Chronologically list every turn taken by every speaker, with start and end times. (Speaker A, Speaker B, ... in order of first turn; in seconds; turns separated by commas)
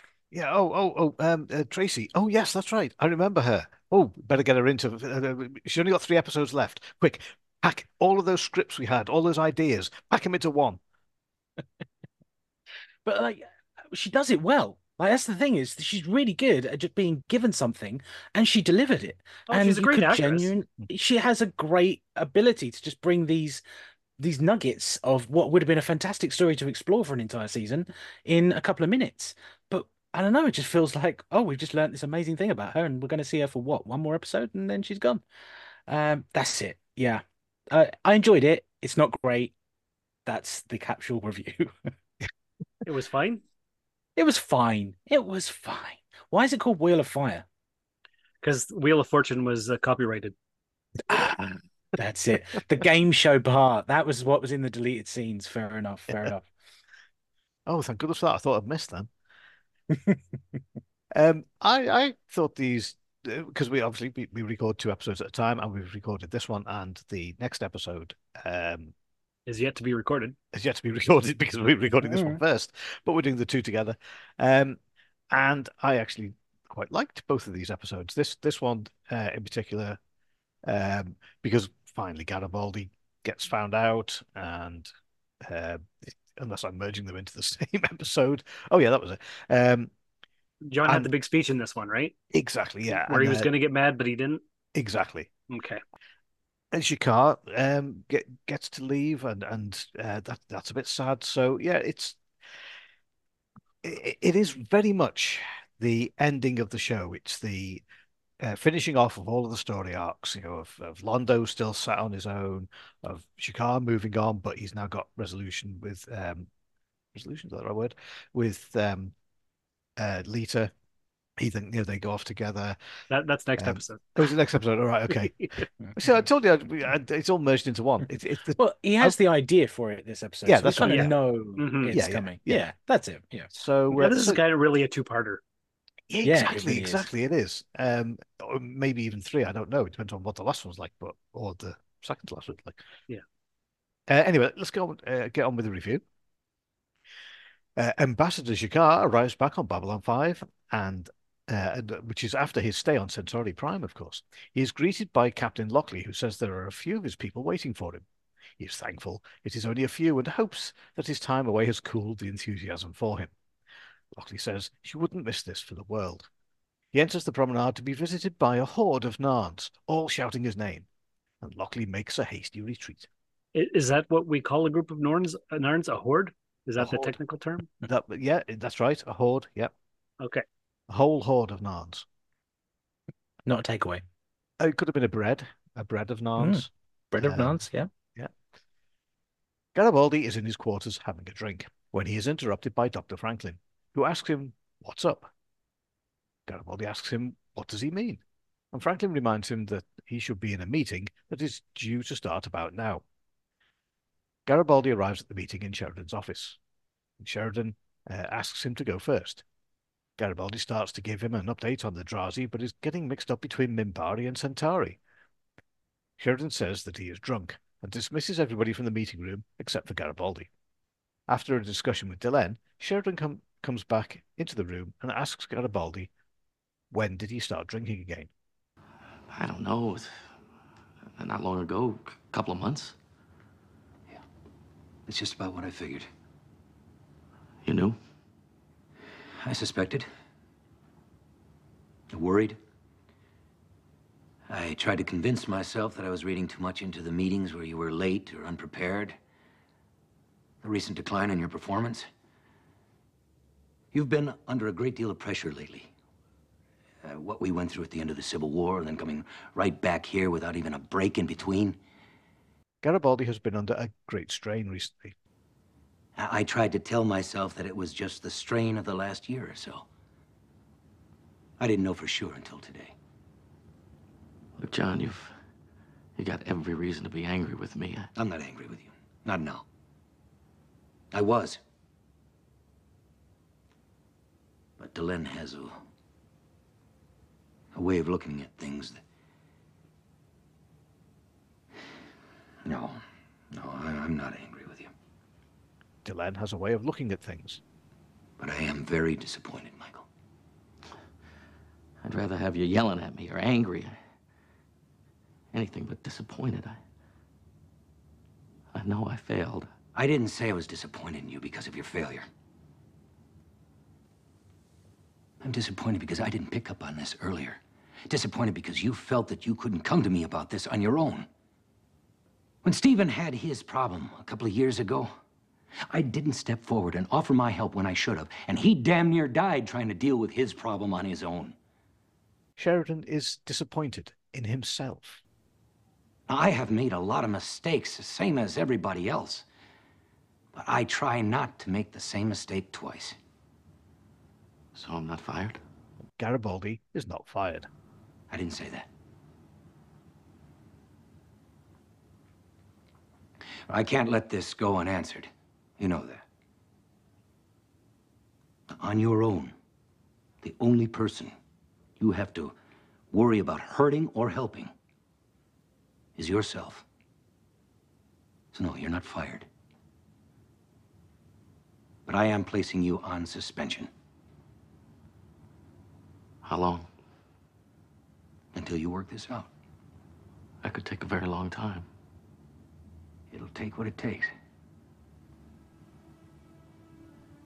Speaker A: 0.3-10.8, Speaker B: 13.0-23.6, Speaker C: 19.5-20.5, Speaker B: 24.2-35.2, Speaker B: 35.9-39.5, Speaker B: 40.2-41.7, Speaker C: 42.9-43.4, Speaker B: 44.2-47.5, Speaker C: 48.4-50.3, Speaker B: 51.1-56.4, Speaker A: 57.6-59.1, Speaker A: 61.1-68.9, Speaker C: 69.5-70.3, Speaker A: 70.5-74.8, Speaker B: 72.0-72.4, Speaker A: 75.3-80.0, Speaker A: 80.6-84.9, Speaker A: 85.4-89.9, Speaker C: 90.6-92.1, Speaker A: 90.8-91.1, Speaker A: 92.3-93.5, Speaker C: 92.9-94.4, Speaker A: 94.7-95.3, Speaker C: 95.5-95.8, Speaker A: 96.7-102.2, Speaker A: 103.8-107.8, Speaker A: 108.4-116.5, Speaker A: 117.1-119.1, Speaker A: 120.0-120.7, Speaker A: 121.4-122.8, Speaker C: 123.1-124.2, Speaker A: 123.6-125.3, Speaker A: 126.0-129.2, Speaker B: 128.6-133.5, Speaker A: 130.4-131.1, Speaker C: 130.8-131.9, Speaker A: 131.9-132.6, Speaker A: 133.5-134.4, Speaker C: 133.9-135.4, Speaker A: 136.1-142.8, Speaker B: 136.2-137.1, Speaker A: 144.1-146.0, Speaker A: 147.8-158.0, Speaker A: 158.6-163.3, Speaker A: 164.1-166.3, Speaker A: 166.9-170.9, Speaker A: 171.4-173.1, Speaker C: 173.5-177.7, Speaker A: 176.8-177.2, Speaker A: 177.8-179.7, Speaker A: 180.9-182.1, Speaker B: 183.4-184.0, Speaker A: 184.6-186.7, Speaker B: 186.4-187.9, Speaker A: 187.2-187.6, Speaker A: 189.7-195.3, Speaker A: 196.5-203.0, Speaker A: 204.4-206.6, Speaker A: 207.2-209.4, Speaker A: 210.2-215.0, Speaker A: 216.2-220.5, Speaker A: 221.3-226.1, Speaker A: 226.9-228.3, Speaker D: 229.3-230.2, Speaker D: 231.2-232.9, Speaker E: 235.1-236.1, Speaker D: 237.6-238.0, Speaker E: 239.4-240.1, Speaker E: 242.1-242.6, Speaker E: 244.5-249.2, Speaker E: 250.6-252.1, Speaker E: 253.9-255.9, Speaker E: 257.0-261.8, Speaker A: 262.8-265.1, Speaker E: 266.1-269.9, Speaker E: 271.6-272.9, Speaker D: 274.6-275.3, Speaker D: 276.2-278.1, Speaker E: 278.1-279.6, Speaker E: 281.1-281.6, Speaker E: 284.8-285.8, Speaker E: 287.7-289.0, Speaker E: 292.6-294.9, Speaker A: 296.0-297.6, Speaker E: 298.4-300.1, Speaker D: 302.0-304.0, Speaker D: 305.5-306.8, Speaker D: 308.7-309.7, Speaker E: 309.9-312.3, Speaker E: 315.4-321.3, Speaker E: 322.6-325.1, Speaker E: 325.9-331.6, Speaker A: 332.6-335.2, Speaker E: 336.3-339.4, Speaker E: 340.5-343.2, Speaker D: 344.7-345.6, Speaker A: 346.2-347.7, Speaker E: 348.3-348.9, Speaker E: 353.7-356.2, Speaker E: 358.7-359.5, Speaker E: 360.4-361.3, Speaker E: 362.0-362.6, Speaker E: 363.1-364.7, Speaker E: 366.1-366.8, Speaker E: 368.5-369.5, Speaker E: 372.1-373.9, Speaker D: 376.4-376.9, Speaker E: 378.5-379.5, Speaker D: 380.6-381.9, Speaker E: 383.3-384.3